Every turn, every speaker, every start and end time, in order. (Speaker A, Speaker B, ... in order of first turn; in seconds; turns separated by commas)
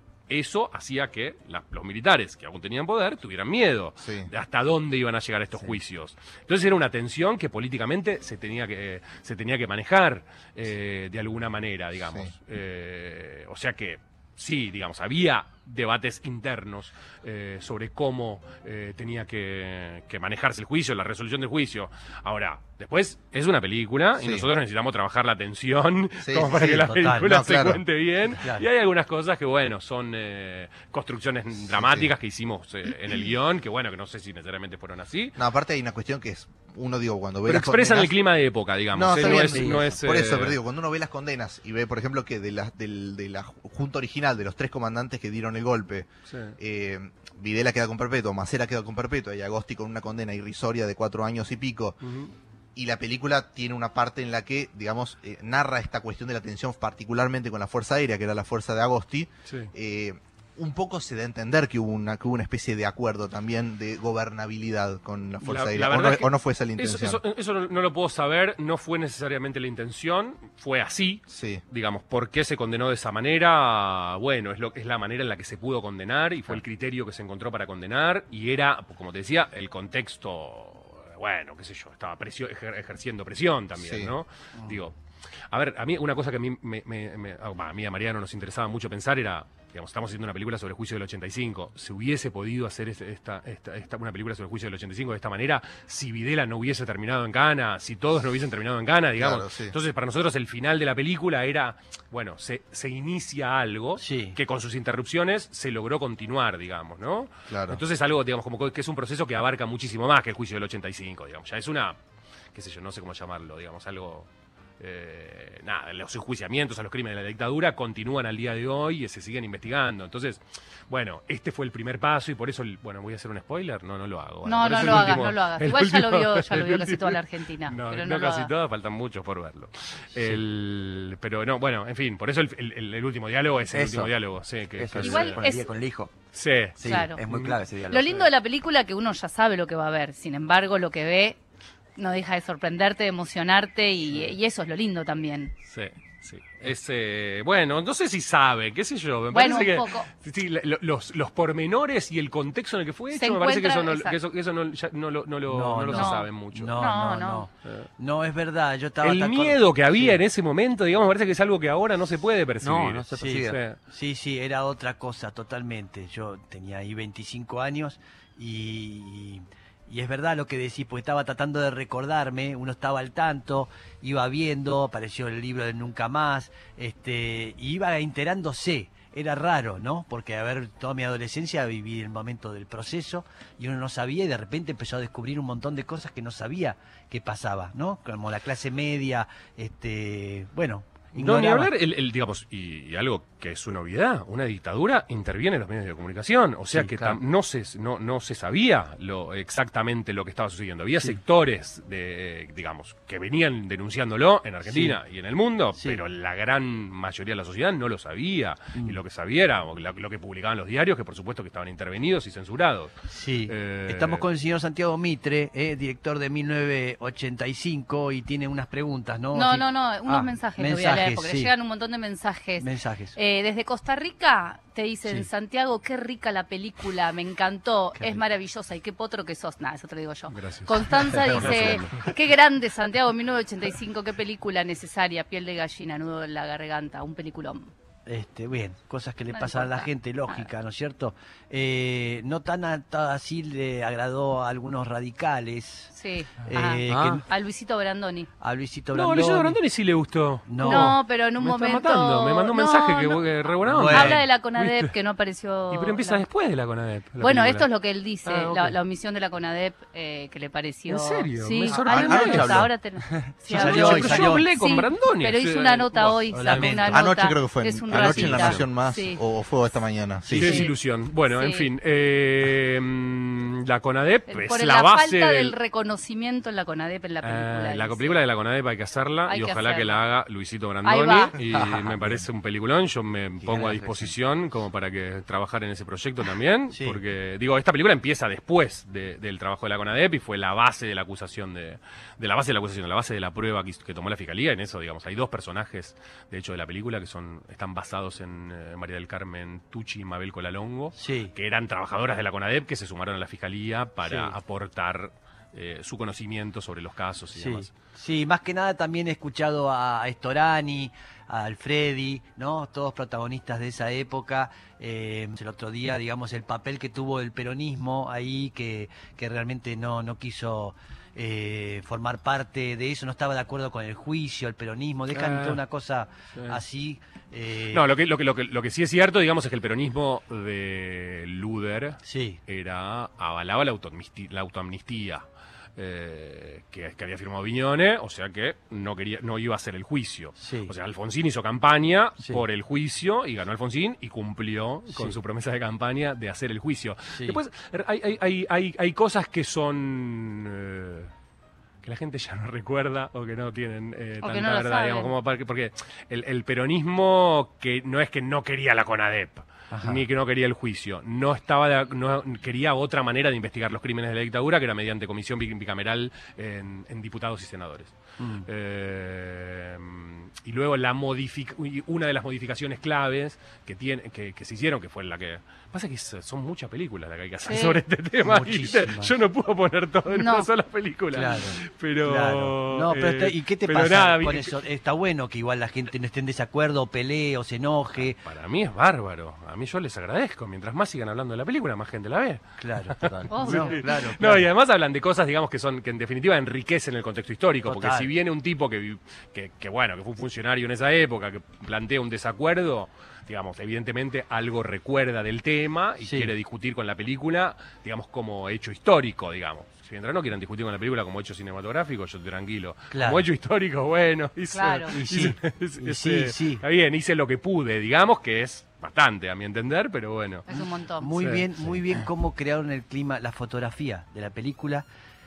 Speaker A: 0.3-35.4, Speaker B: 4.0-4.3, Speaker B: 24.2-24.5, Speaker B: 26.2-27.8, Speaker C: 26.5-27.3, Speaker C: 28.4-28.7, Speaker B: 31.7-32.1, Speaker B: 35.4-38.1, Speaker A: 37.5-40.6, Speaker B: 38.9-52.0, Speaker C: 39.2-39.9, Speaker A: 46.3-46.6, Speaker A: 52.0-52.3, Speaker B: 52.8-67.2, Speaker A: 59.5-59.7, Speaker A: 65.4-85.0, Speaker B: 71.3-71.6, Speaker B: 83.8-84.1, Speaker A: 85.5-112.0, Speaker B: 99.2-99.8, Speaker C: 104.0-104.4, Speaker B: 107.5-107.8, Speaker A: 112.5-135.4, Speaker D: 124.4-128.5, Speaker E: 133.7-134.1, Speaker E: 134.8-136.1, Speaker D: 134.9-135.7, Speaker A: 136.3-137.6, Speaker E: 136.8-138.3, Speaker D: 136.8-137.2, Speaker D: 137.9-141.4, Speaker D: 142.0-145.5, Speaker A: 145.7-156.8, Speaker D: 149.3-150.1, Speaker D: 153.1-154.2, Speaker C: 155.5-160.2, Speaker D: 155.9-157.5, Speaker A: 157.6-157.9, Speaker A: 159.0-163.8, Speaker E: 162.6-163.6, Speaker C: 163.1-191.7, Speaker A: 191.2-214.2, Speaker C: 196.7-197.2, Speaker C: 204.7-205.0, Speaker C: 205.7-206.0, Speaker C: 213.1-221.5, Speaker D: 219.3-237.7, Speaker C: 222.6-223.2, Speaker C: 227.9-228.2, Speaker A: 230.3-232.1, Speaker C: 231.3-231.7, Speaker C: 238.1-247.2, Speaker D: 239.3-240.5, Speaker D: 245.9-248.3, Speaker E: 246.9-247.2, Speaker C: 248.4-249.6, Speaker A: 248.9-254.9, Speaker C: 250.5-251.0, Speaker D: 250.6-256.2, Speaker C: 253.7-254.2, Speaker A: 255.7-257.7, Speaker D: 257.2-269.2, Speaker A: 258.2-258.8, Speaker A: 260.9-262.7, Speaker B: 261.7-262.7, Speaker C: 263.5-264.5, Speaker A: 263.5-267.1, Speaker C: 266.3-267.0, Speaker B: 266.9-270.6, Speaker A: 267.9-268.7, Speaker C: 270.2-270.6, Speaker A: 270.4-275.6, Speaker D: 270.4-270.7, Speaker D: 271.3-271.7, Speaker D: 274.3-278.2, Speaker A: 277.2-307.7, Speaker D: 279.3-280.0, Speaker D: 280.8-281.4, Speaker E: 281.5-282.2, Speaker E: 283.4-284.1, Speaker C: 286.7-287.0, Speaker C: 300.9-301.3, Speaker C: 304.0-304.4, Speaker C: 307.4-327.8, Speaker A: 325.1-325.6, Speaker A: 326.4-326.6, Speaker A: 327.7-335.2, Speaker C: 332.0-332.4, Speaker A: 335.8-351.1, Speaker C: 340.4-340.7, Speaker C: 344.9-345.2, Speaker C: 347.1-347.4, Speaker A: 351.8-384.6, Speaker D: 354.2-355.1, Speaker C: 359.7-360.1, Speaker C: 368.2-368.5, Speaker D: 377.5-377.8, Speaker C: 378.3-379.1, Speaker D: 380.1-380.5, Speaker C: 381.1-388.2, Speaker A: 388.0-420.5, Speaker C: 392.6-394.5, Speaker E: 393.0-393.3, Speaker D: 393.3-393.8, Speaker C: 397.6-398.1, Speaker C: 406.0-406.3, Speaker C: 412.9-413.2, Speaker D: 414.5-415.0, Speaker C: 414.9-416.6, Speaker D: 420.5-421.2, Speaker C: 420.5-424.9, Speaker A: 421.2-421.5